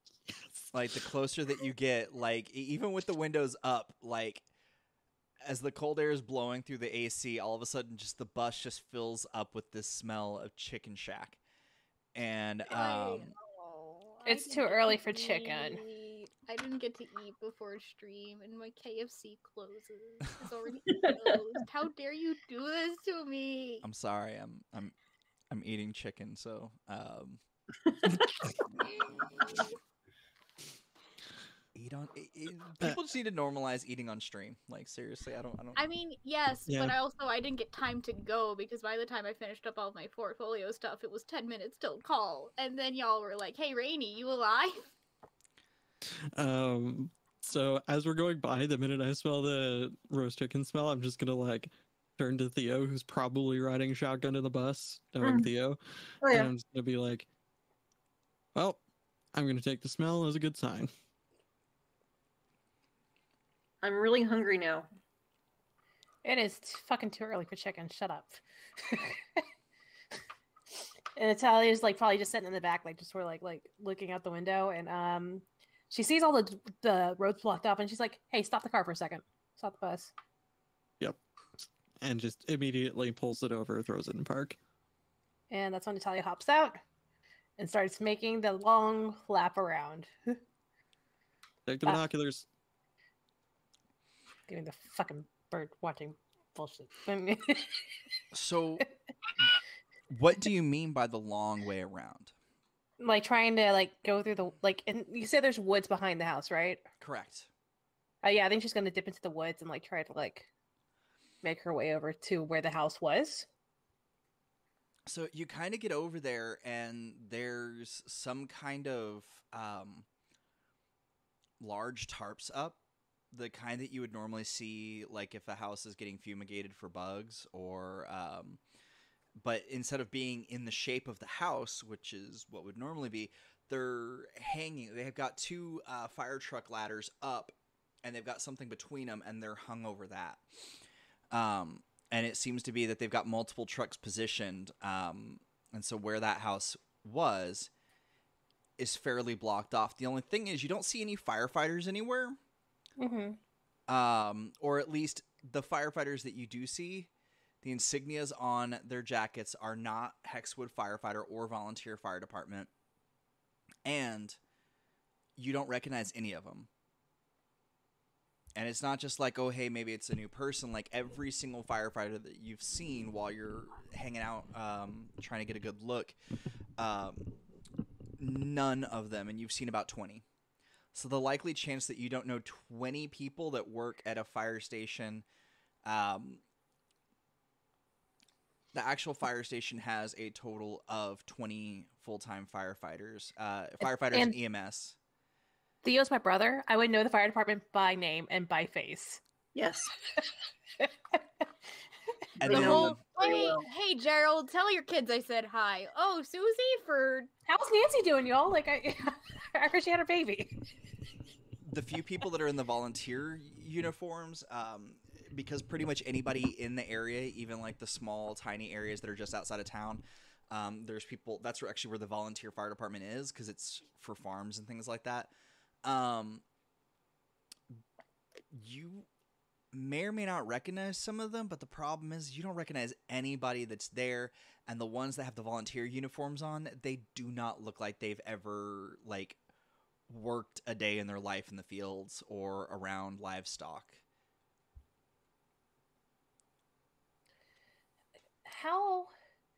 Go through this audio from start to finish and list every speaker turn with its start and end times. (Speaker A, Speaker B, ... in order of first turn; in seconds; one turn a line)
Speaker A: 0.7-4.4
Speaker A: 5.4-11.4
Speaker A: 12.1-13.3
Speaker B: 12.7-23.8
Speaker C: 14.2-15.8
Speaker D: 20.9-21.1
Speaker A: 23.8-24.9
Speaker A: 25.5-27.4
Speaker A: 31.7-35.8
Speaker B: 35.8-44.8
Speaker E: 36.7-36.9
Speaker E: 46.1-57.2
Speaker D: 56.2-56.5
Speaker E: 58.5-58.8
Speaker E: 59.3-60.9
Speaker D: 63.8-64.8
Speaker C: 66.2-69.4
Speaker C: 71.2-80.1
Speaker E: 82.0-84.6
Speaker C: 85.5-86.8
Speaker C: 87.6-90.4
Speaker E: 91.7-92.5
Speaker C: 94.5-98.0
Speaker A: 98.3-98.8
Speaker A: 100.1-102.3
Speaker C: 103.0-106.8
Speaker A: 107.0-107.5
Speaker C: 108.2-110.5
Speaker C: 111.4-113.5
Speaker A: 115.1-120.0
Speaker A: 121.6-122.8
Speaker A: 123.3-128.6
Speaker A: 129.4-140.4
Speaker A: 141.3-147.7
Speaker A: 148.8-152.4
Speaker C: 153.0-153.4
Speaker A: 153.9-157.1
Speaker A: 157.6-162.7
Speaker A: 163.8-164.4
Speaker A: 165.4-166.7
Speaker A: 168.6-176.2
Speaker A: 176.8-177.3
Speaker A: 178.2-180.2
Speaker A: 180.9-185.2
Speaker A: 185.8-186.4
Speaker A: 188.7-194.9
Speaker C: 194.1-194.4
Speaker C: 195.8-199.2
Speaker D: 199.5-199.9
Speaker C: 200.8-201.4
Speaker A: 202.4-203.0
Speaker D: 202.4-203.7
Speaker C: 202.5-202.8
Speaker B: 202.6-207.3
Speaker C: 207.5-210.7
Speaker A: 211.6-225.3
Speaker A: 225.8-226.4
Speaker A: 228.5-229.1
Speaker A: 229.7-239.4
Speaker A: 240.1-244.0
Speaker C: 248.4-249.1